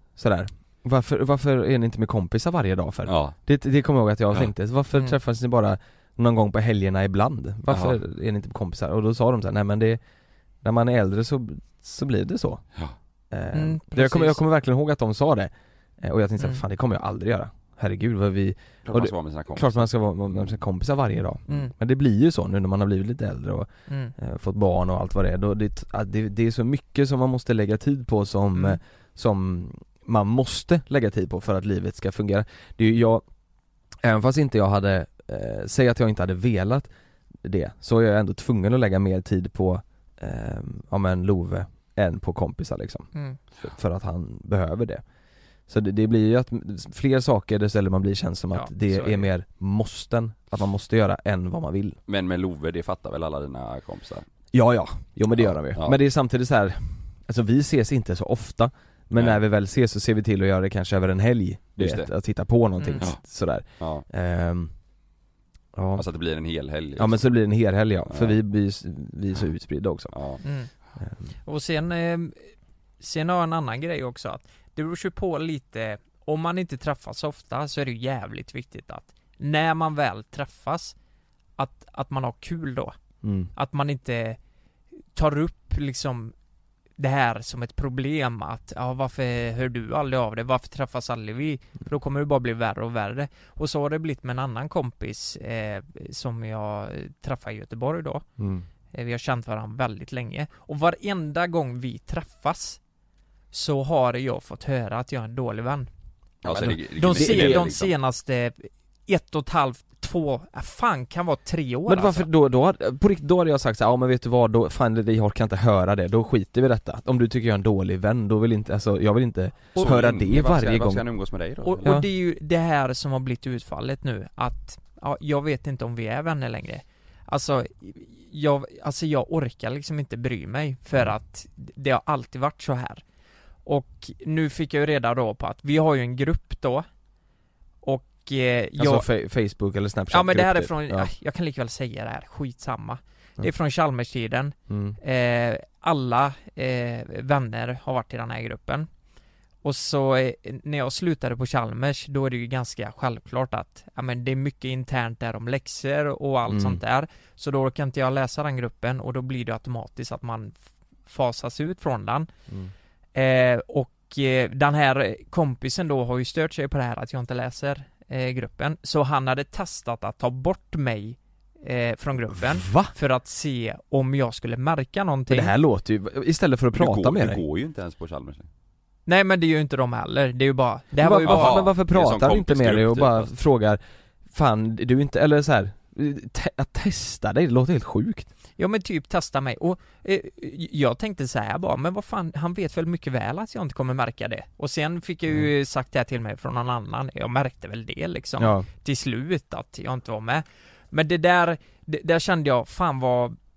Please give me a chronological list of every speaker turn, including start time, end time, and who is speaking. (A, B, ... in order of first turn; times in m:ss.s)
0:00.2-0:10.0 A
0:03.0-0:03.3 B
0:07.7-0:08.0 B
0:10.6-0:12.6 A
0:13.3-0:15.5 A
0:13.5-0:14.4 C
0:16.0-0:33.2 A
0:18.8-0:20.6 B
0:23.9-0:24.1 C
0:34.0-0:36.9 A
0:37.4-0:43.1 A
0:43.1-0:43.4 C
0:43.6-0:45.0 A
0:45.7-0:52.0 A
0:48.5-0:49.2 C
0:52.1-0:54.2 B
0:54.5-1:04.7 A
0:55.4-0:56.0 B
1:01.8-1:02.1 B
1:02.8-1:03.0 C
1:03.8-1:04.0 B
1:05.7-1:06.0 A
1:06.0-1:07.3 B
1:07.0-1:10.1 A
1:08.1-1:08.4 B
1:10.1-1:10.4 B
1:10.4-1:10.7 C
1:11.4-1:12.4 C
1:13.0-1:20.9 C
1:21.6-1:22.9 C
1:23.2-1:23.5 A
1:23.5-1:24.4 C
1:25.1-1:26.3 C
1:27.0-1:38.2 C
1:38.4-1:38.6 A
1:38.9-1:42.8 C
1:43.5-1:45.9 C
1:46.4-1:47.9 B
1:46.5-1:47.7 A
1:47.0-1:52.3 C
1:51.9-2:01.0 A
1:59.8-2:01.8 B
2:01.6-2:13.0 C
2:13.6-2:16.8 C
2:17.8-2:19.0 C
2:18.8-2:21.1 A
2:20.1-2:28.9 C
2:24.7-2:25.0 A
2:29.6-2:40.5 C
2:36.5-2:36.8 A
2:41.1-2:42.3 C
2:43.1-2:55.5 C
2:52.4-2:52.9 A
2:55.3-2:57.4 A
2:56.7-2:58.5 B
2:59.0-3:01.6 C
3:01.0-3:03.8 A
3:01.2-3:03.3 B
3:04.3-3:08.3 A
3:08.6-3:23.4 C
3:18.4-3:18.7 A